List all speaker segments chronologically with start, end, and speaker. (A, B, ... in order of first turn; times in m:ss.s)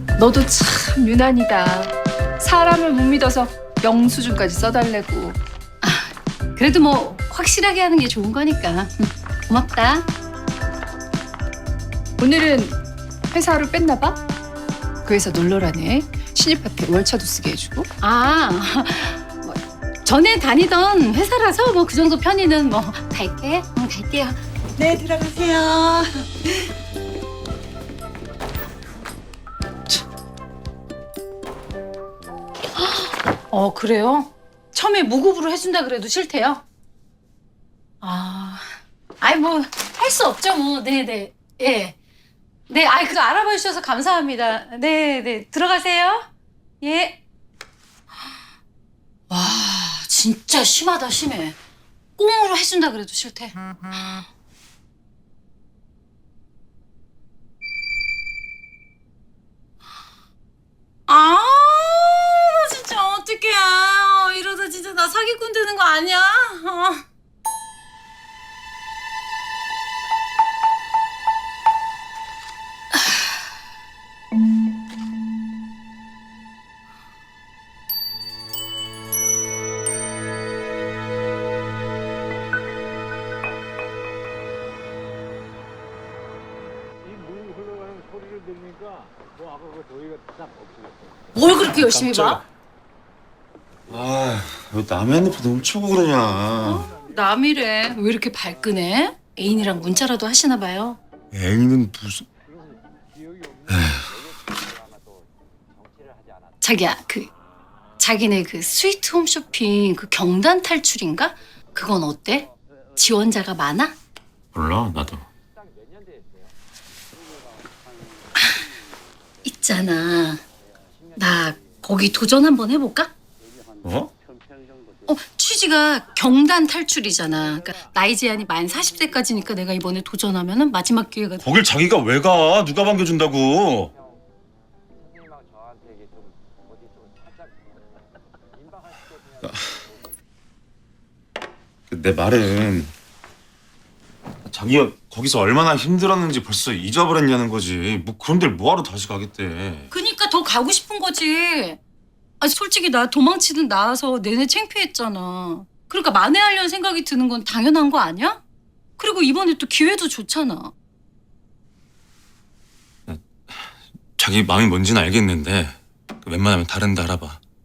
0:00.2-0:05.4 A
0:05.8-0:10.1 B
0:12.2-0:12.8 A
0:13.3-0:14.2 A
0:15.0-0:17.9 A
0:18.0-0:26.6 B
0:32.7-0:36.6 B
0:38.0-0:42.0 B
0:42.7-0:46.3 B
0:46.8-0:47.2 B
0:49.3-0:51.6 B
0:52.2-0:54.2 B
1:01.1-1:07.0 B
1:31.3-1:32.4 B
1:31.7-1:32.4 C
1:33.9-1:36.9 C
1:36.6-1:41.0 B
1:41.3-1:42.3 C
1:43.7-1:44.1 C
1:46.6-1:47.3 B
1:48.0-1:54.0 B
1:54.5-1:55.3 C
1:59.4-2:00.4 B
2:01.2-2:03.1 B
2:03.8-2:04.1 C
2:05.1-2:11.4 B
2:11.4-2:13.9 C
2:19.4-2:19.8 C
2:21.9-2:22.9 C
2:24.4-2:29.9 C
2:29.9-2:31.8 B
2:32.4-2:38.4 B
2:39.0-2:40.7 B
2:43.1-2:47.4 C